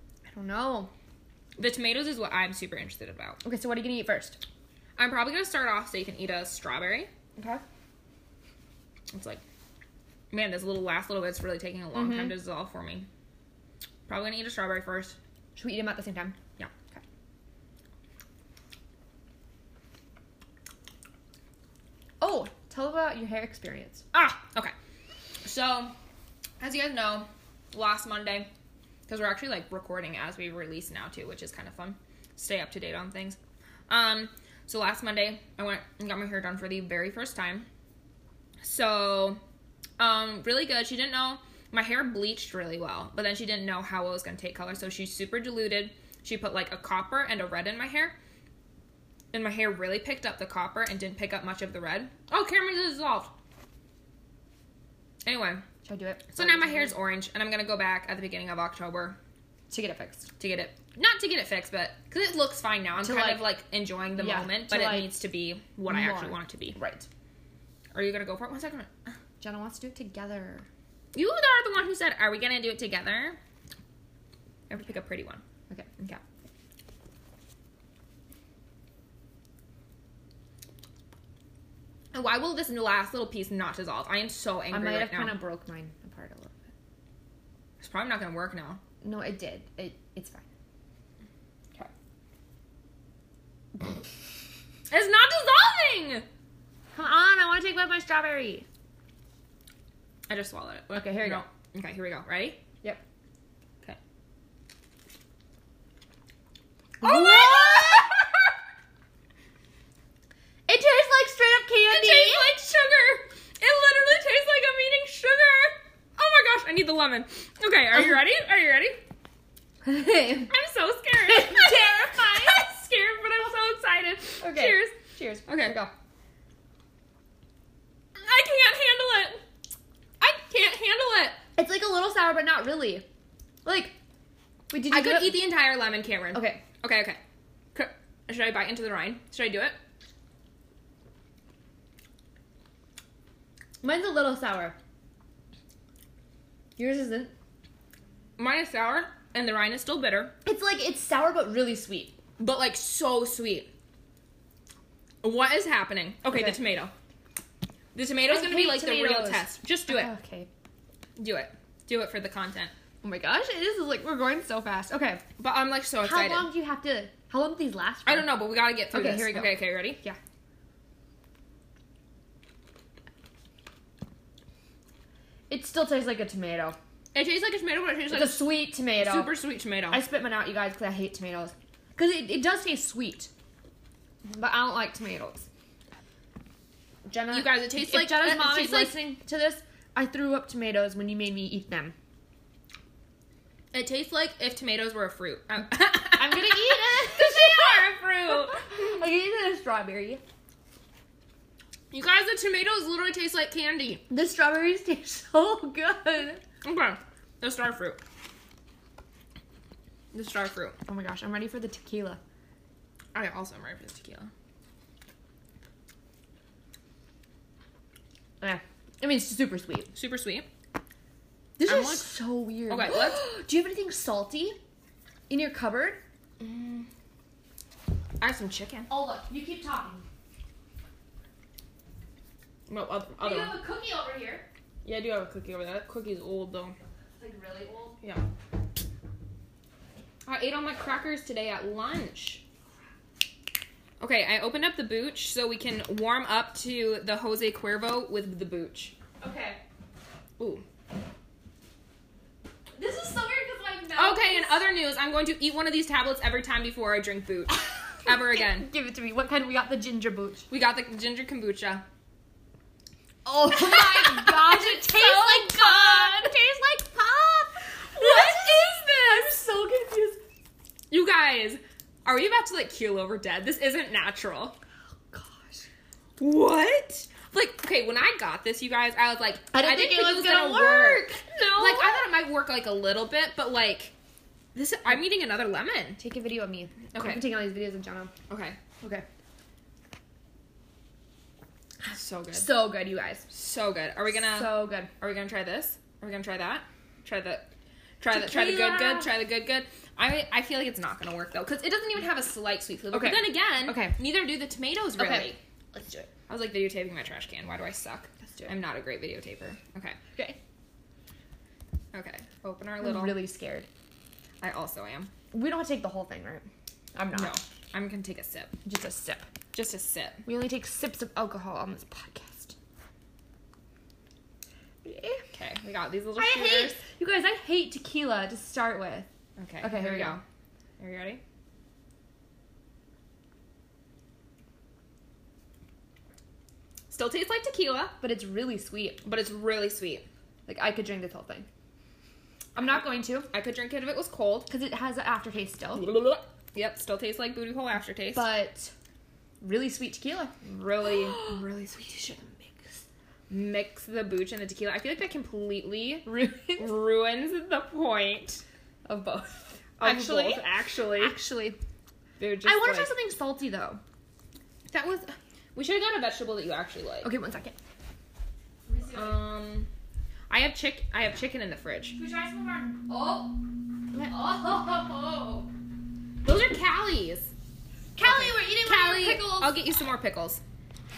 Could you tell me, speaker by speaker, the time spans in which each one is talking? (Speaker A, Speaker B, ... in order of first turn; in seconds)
Speaker A: 0.3-0.9, 3.4-4.4, 7.4-7.6, 11.9-12.4, 15.6-16.4, 22.2-24.1, 55.9-57.0, 59.7-60.3, 63.0-63.6, 64.2-65.2, 65.9-67.1, 69.4-70.7, 75.7-76.0, 84.7-86.6, 89.0-90.4, 96.9-98.7, 100.9-101.5, 107.0-108.1, 110.7-112.6, 119.8-120.5, 121.2-122.6, 124.4-125.9, 131.6-133.1, 133.7-133.9, 134.7-135.6, 136.3-136.6, 143.8-144.8, 146.8-147.3, 150.4-152.2, 158.3-160.5, 163.0-165.2, 166.0-170.2, 175.5-176.8, 178.1-179.4, 179.9-183.3, 184.2-185.5, 187.1-191.9, 196.1-200.2, 204.1-206.4, 210.9-212.2, 218.4-219.9, 221.6-224.6, 225.3-226.0, 228.9-230.0, 233.2-234.5, 237.2-238.0, 249.2-249.6, 252.8-254.7, 258.1-260.5, 263.2-270.2, 275.1-275.7, 279.5-282.1, 286.0-288.1, 288.8-289.1, 292.3-293.3, 294.1-294.9, 298.1-299.1, 302.9-304.0, 305.0-306.1, 312.8-313.7, 315.3-317.4, 318.6-319.3, 320.3-322.6, 324.8-325.2, 326.2-329.1, 329.6-330.2, 338.0-339.0, 340.5-341.5, 342.6-343.3, 344.5-346.0, 348.1-348.7, 349.4-350.4, 356.1-356.8, 358.9-361.6, 362.4-363.8, 367.0-367.6, 368.7-369.2, 371.9-373.4, 373.9-375.5, 378.0-379.6
Speaker B: 1.6-3.4, 5.0-7.1, 9.1-9.4, 10.3-13.1, 14.1-15.2, 24.1-24.7, 25.4-25.9, 26.6-28.5, 29.1-37.7, 38.6-39.4, 40.0-48.1, 49.3-53.3, 55.2-55.6, 56.3-59.2, 60.4-66.8, 67.9-69.1, 71.1-73.4, 74.7-75.4, 82.1-85.4, 87.8-88.8, 94.9-96.3, 100.3-102.6, 107.0-108.4, 111.9-119.0, 120.5-125.8, 128.2-129.4, 130.2-131.4, 134.9-137.2, 137.7-139.8, 148.4-150.3, 152.4-153.7, 155.2-156.9, 157.9-160.1, 161.2-162.7, 165.4-166.5, 168.1-170.0, 177.1-180.0, 187.3-189.1, 193.7-198.6, 201.9-204.1, 206.6-208.0, 210.1-210.8, 213.1-214.3, 219.9-220.5, 221.7-222.2, 222.7-223.2, 226.4-226.9, 228.2-228.9, 232.7-233.6, 234.8-236.8, 240.2-242.4, 244.0-248.9, 250.4-250.6, 254.0-258.7, 260.5-261.9, 263.5-266.4, 267.9-269.3, 270.9-274.6, 276.2-283.9, 284.6-286.0, 286.9-287.3, 288.3-288.6, 291.8-292.6, 293.3-297.5, 298.0-305.4, 306.3-310.0, 311.9-313.2, 314.4-315.1, 317.1-318.5, 319.5-320.2, 325.3-326.8, 329.4-330.2, 330.8-331.2, 336.9-338.0, 339.0-340.1, 342.6-344.5, 345.8-348.3, 350.4-352.7, 353.3-358.4, 359.8-361.2, 362.2-362.9, 364.7-367.1, 368.9-369.7, 370.3-372.0, 376.2-377.3, 378.0-380.4